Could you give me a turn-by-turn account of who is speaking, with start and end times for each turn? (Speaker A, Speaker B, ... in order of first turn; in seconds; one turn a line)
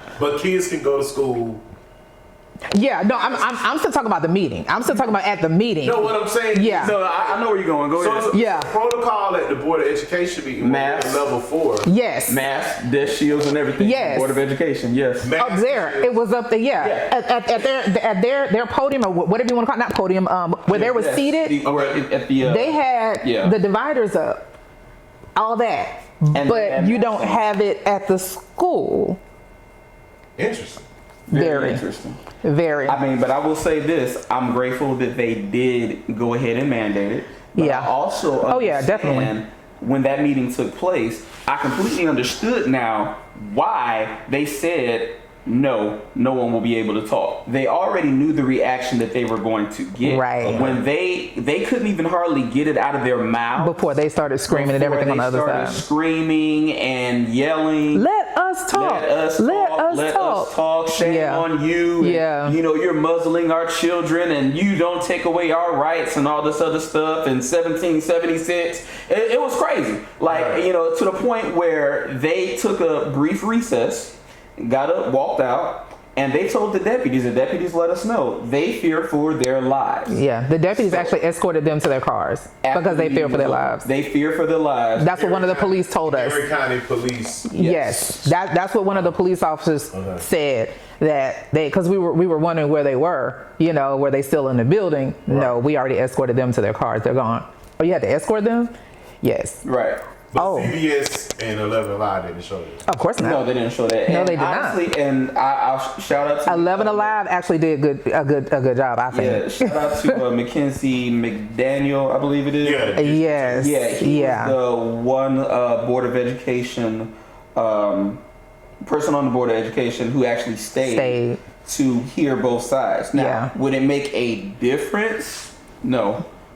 Speaker A: 0.2-1.6
Speaker B: 2.7-6.9
Speaker A: 5.8-11.9
Speaker C: 6.8-8.3
Speaker B: 8.3-8.7
Speaker C: 10.6-11.3
Speaker B: 11.8-12.4
Speaker C: 12.3-15.3
Speaker B: 13.8-14.4
Speaker A: 15.2-16.2
Speaker B: 15.4-21.6
Speaker C: 16.8-17.1
Speaker C: 20.7-23.6
Speaker B: 22.4-24.5
Speaker B: 25.3-29.2
Speaker C: 26.3-27.4
Speaker A: 30.4-30.9
Speaker C: 31.3-32.2
Speaker B: 31.3-31.8
Speaker B: 32.4-33.0
Speaker C: 32.8-53.9
Speaker B: 37.5-39.4
Speaker B: 50.0-50.6
Speaker A: 50.4-50.8
Speaker B: 53.6-55.9
Speaker C: 54.5-58.0
Speaker B: 57.9-61.5
Speaker C: 58.7-81.2
Speaker B: 62.0-62.6
Speaker A: 70.3-70.6
Speaker B: 80.1-83.9
Speaker C: 82.6-85.2
Speaker B: 85.0-86.4
Speaker A: 85.1-87.5
Speaker B: 87.5-99.6
Speaker C: 87.5-88.3
Speaker A: 89.9-90.2
Speaker C: 99.6-100.0
Speaker A: 100.3-102.8
Speaker B: 100.3-100.7
Speaker B: 102.9-103.4
Speaker C: 103.2-107.2
Speaker B: 104.0-104.8
Speaker B: 106.5-110.2
Speaker C: 109.1-118.2
Speaker A: 112.6-113.6
Speaker B: 113.0-114.5
Speaker C: 118.8-126.2
Speaker B: 120.8-121.4
Speaker B: 123.1-123.5